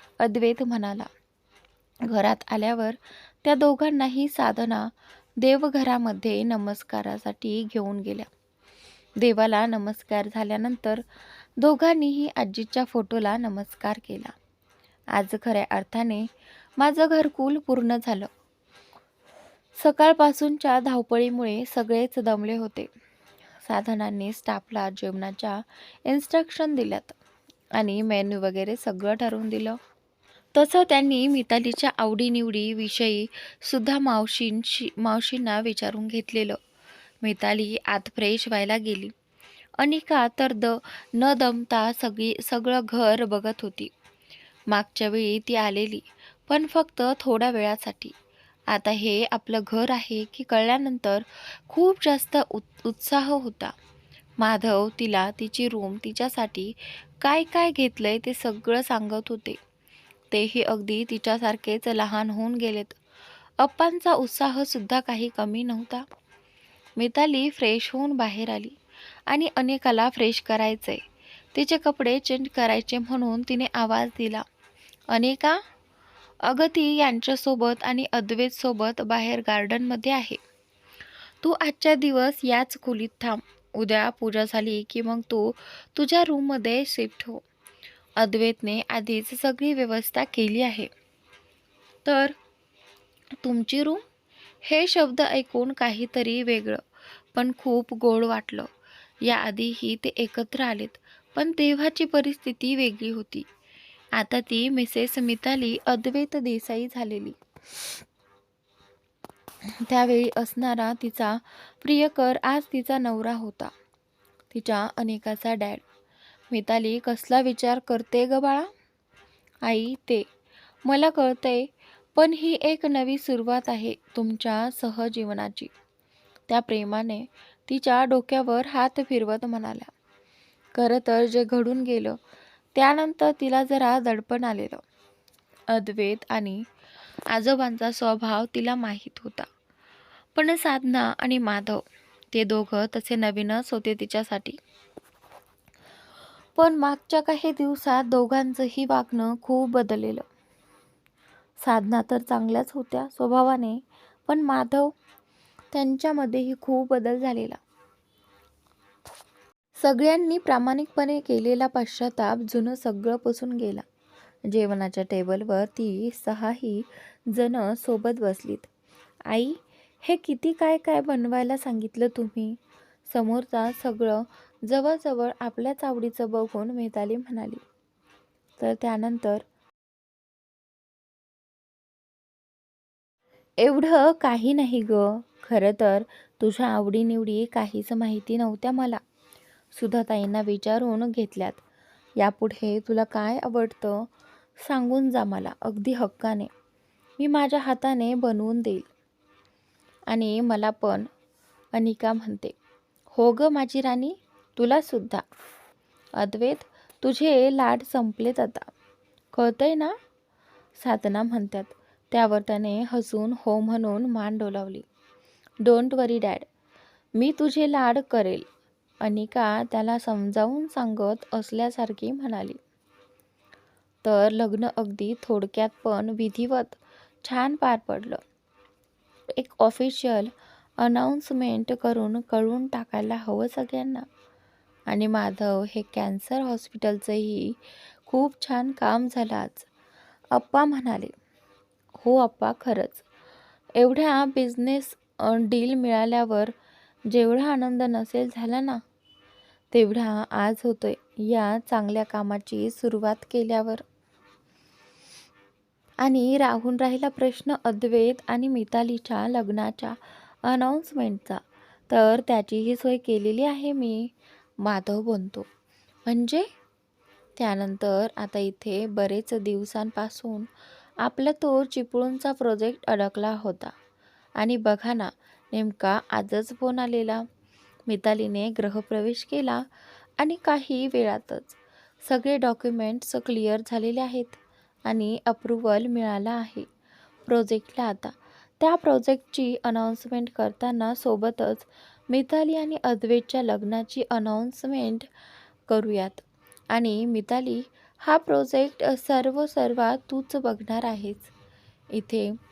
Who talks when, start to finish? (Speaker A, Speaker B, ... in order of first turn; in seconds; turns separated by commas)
Speaker A: 0.2-1.1, Speaker A: 2.0-8.3, Speaker A: 9.2-11.0, Speaker A: 11.6-14.3, Speaker A: 15.1-16.3, Speaker A: 16.8-18.3, Speaker A: 19.8-22.9, Speaker A: 23.6-27.2, Speaker A: 27.8-29.8, Speaker A: 30.5-36.6, Speaker A: 37.2-39.1, Speaker A: 39.8-43.9, Speaker A: 44.7-48.1, Speaker A: 48.7-53.7, Speaker A: 54.4-59.6, Speaker A: 60.3-63.0, Speaker A: 63.6-66.0, Speaker A: 67.0-71.0, Speaker A: 71.5-74.4, Speaker A: 75.1-75.6, Speaker A: 76.4-80.4, Speaker A: 81.4-87.4, Speaker A: 88.2-90.9, Speaker A: 92.0-92.3, Speaker A: 93.4-94.0, Speaker A: 94.6-96.8, Speaker A: 97.3-98.7, Speaker A: 99.2-103.5, Speaker A: 104.2-107.4, Speaker A: 109.8-113.7, Speaker A: 114.5-115.8, Speaker A: 116.5-118.7, Speaker A: 119.6-120.3, Speaker A: 120.8-125.7, Speaker A: 126.5-129.9, Speaker A: 130.7-132.2, Speaker A: 132.7-134.8, Speaker A: 135.7-136.6, Speaker A: 137.3-139.5, Speaker A: 140.3-144.6, Speaker A: 146.6-150.2, Speaker A: 151.6-154.9, Speaker A: 155.7-157.6, Speaker A: 159.7-163.8, Speaker A: 164.5-168.7, Speaker A: 169.3-177.6, Speaker A: 178.6-179.4, Speaker A: 183.6-189.0, Speaker A: 189.7-191.6, Speaker A: 192.2-194.1, Speaker A: 194.6-196.5, Speaker A: 197.2-198.9, Speaker A: 200.1-201.1, Speaker A: 201.7-202.5, Speaker A: 203.1-205.2, Speaker A: 206.2-208.7, Speaker A: 209.3-209.9, Speaker A: 210.8-214.8, Speaker A: 215.6-216.5, Speaker A: 217.2-218.5, Speaker A: 219.0-222.6, Speaker A: 224.0-228.2, Speaker A: 229.3-234.0, Speaker A: 234.9-239.7, Speaker A: 240.3-241.1, Speaker A: 242.0-243.0, Speaker A: 243.8-246.5, Speaker A: 247.1-248.8, Speaker A: 249.7-253.8, Speaker A: 256.0-264.1, Speaker A: 264.6-265.5, Speaker A: 266.1-266.4, Speaker A: 267.4-270.5, Speaker A: 271.0-273.7, Speaker A: 274.4-277.2, Speaker A: 277.9-279.6, Speaker A: 280.2-286.7, Speaker A: 287.3-295.1, Speaker A: 295.7-301.3, Speaker A: 301.9-302.3